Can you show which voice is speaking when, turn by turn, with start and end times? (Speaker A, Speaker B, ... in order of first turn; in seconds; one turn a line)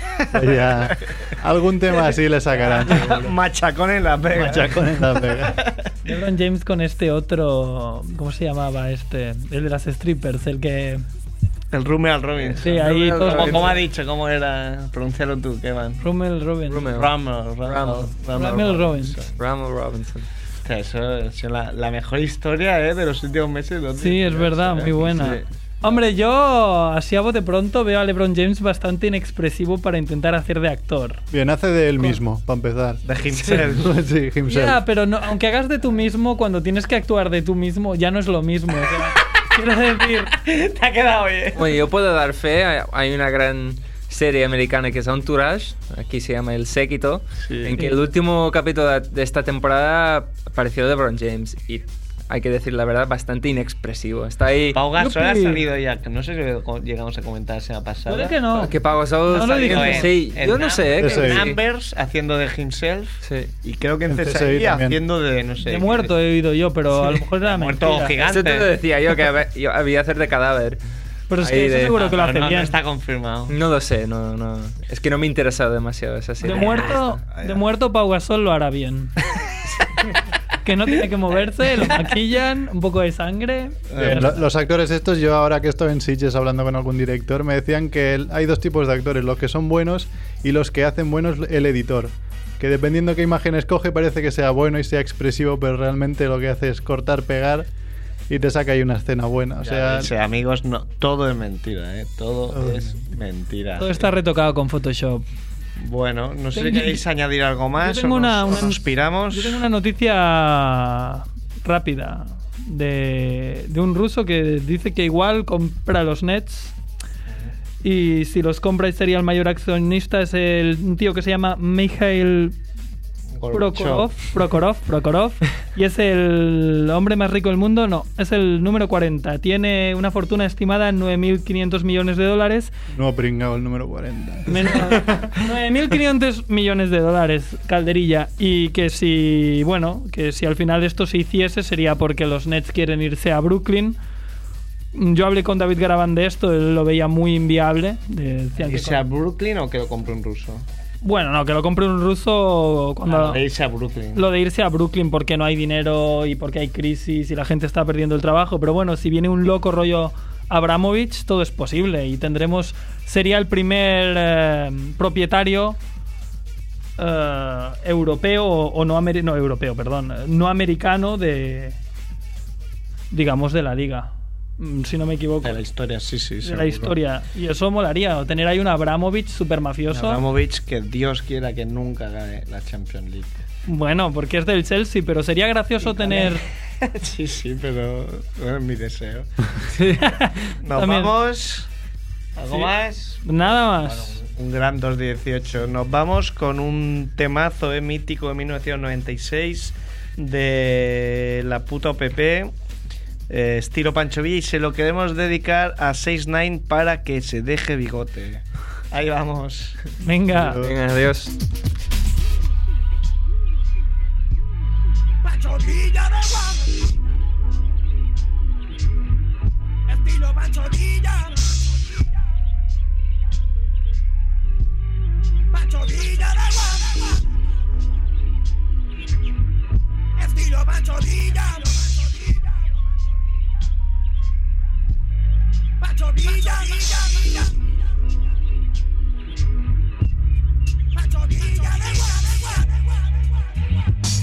Speaker A: 0.3-3.3
Speaker B: 0.5-0.9
Speaker B: 2.6-5.9
Speaker A: 4.3-5.6
Speaker C: 6.0-11.0
Speaker B: 11.7-16.1
Speaker D: 12.5-13.8
Speaker C: 12.6-13.8
Speaker C: 16.0-16.9
Speaker D: 16.7-18.1
Speaker B: 16.9-19.3
Speaker C: 18.3-19.2
Speaker D: 19.3-20.3
Speaker B: 20.6-25.1
Speaker C: 23.9-31.2
Speaker D: 25.1-25.4
Speaker A: 31.3-33.0
Speaker B: 33.0-33.9
Speaker A: 33.5-34.8
Speaker C: 34.5-40.3
Speaker B: 40.3-41.8
Speaker D: 41.5-54.8
Speaker B: 47.4-47.8
Speaker B: 54.7-58.7
Speaker C: 55.0-55.6
Speaker C: 58.1-58.7
Speaker D: 58.6-61.5
Speaker C: 59.3-60.1
Speaker B: 59.3-66.1
Speaker A: 61.0-61.5
Speaker D: 63.2-63.5
Speaker A: 64.1-65.0
Speaker C: 65.6-68.2
Speaker B: 67.0-68.7
Speaker D: 68.2-70.8
Speaker C: 71.3-72.7
Speaker D: 71.4-72.1
Speaker B: 71.9-73.5
Speaker D: 73.5-77.0
Speaker C: 76.4-79.1
Speaker B: 76.4-77.6
Speaker C: 80.6-84.4
Speaker B: 83.9-84.4
Speaker A: 84.0-97.7
Speaker A: 98.3-100.1
Speaker B: 99.6-104.1
Speaker A: 102.5-103.0
Speaker C: 103.8-105.2
Speaker B: 105.8-109.6
Speaker C: 106.5-107.0
Speaker C: 107.8-108.8
Speaker C: 109.3-116.7
Speaker C: 117.8-122.6
Speaker B: 123.3-124.1
Speaker C: 123.5-132.8
Speaker A: 132.9-135.4
Speaker C: 134.5-144.0
Speaker C: 144.9-149.0
Speaker B: 148.6-150.7
Speaker C: 151.0-153.4
Speaker B: 153.0-154.2
Speaker C: 154.1-165.8
Speaker C: 167.0-171.8
Speaker C: 173.1-175.6
Speaker B: 175.4-177.0
Speaker C: 176.4-180.2
Speaker B: 179.9-183.4
Speaker C: 183.7-186.4
Speaker B: 185.9-189.3
Speaker C: 190.0-191.1
Speaker B: 190.6-191.7
Speaker B: 192.3-202.5
Speaker C: 193.2-194.2
Speaker B: 203.3-209.8
Speaker C: 210.0-210.6
Speaker A: 210.3-210.7
Speaker D: 210.6-211.3
Speaker E: 215.2-217.0
Speaker E: 219.9-222.2
Speaker E: 225.5-227.3
Speaker E: 230.2-232.8
Speaker E: 235.8-237.7
Speaker E: 240.9-243.3